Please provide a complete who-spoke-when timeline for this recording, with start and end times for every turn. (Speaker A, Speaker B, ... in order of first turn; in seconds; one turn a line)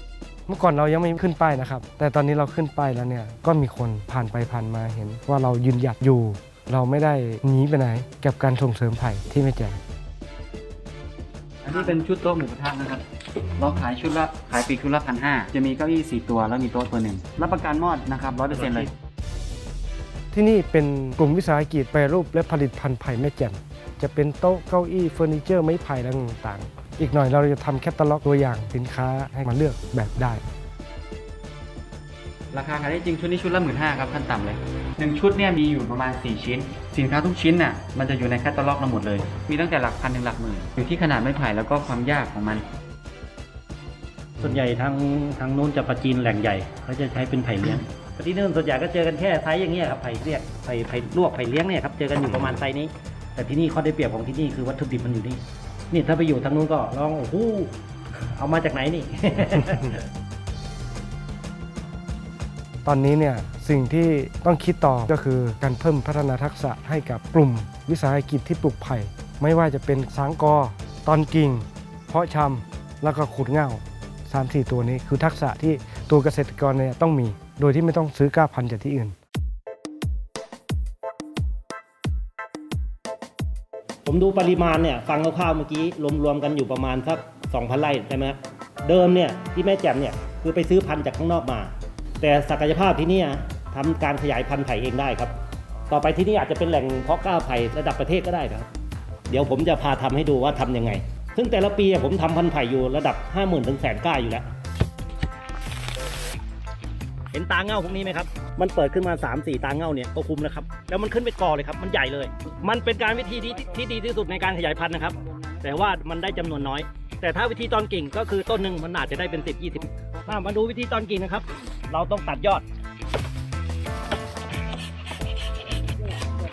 Speaker A: 0.5-9.8
Speaker B: 11.6-13.0
Speaker B: 13.6-18.9
Speaker C: 18.5-18.9
Speaker A: 20.3-30.4
Speaker B: 32.5-42.6
Speaker C: 44.4-57.7
Speaker C: 58.4-60.0
Speaker A: 62.8-79.2
Speaker C: 84.0-95.3
Speaker C: 95.9-98.7
Speaker C: 99.3-104.5
Speaker C: 107.3-122.6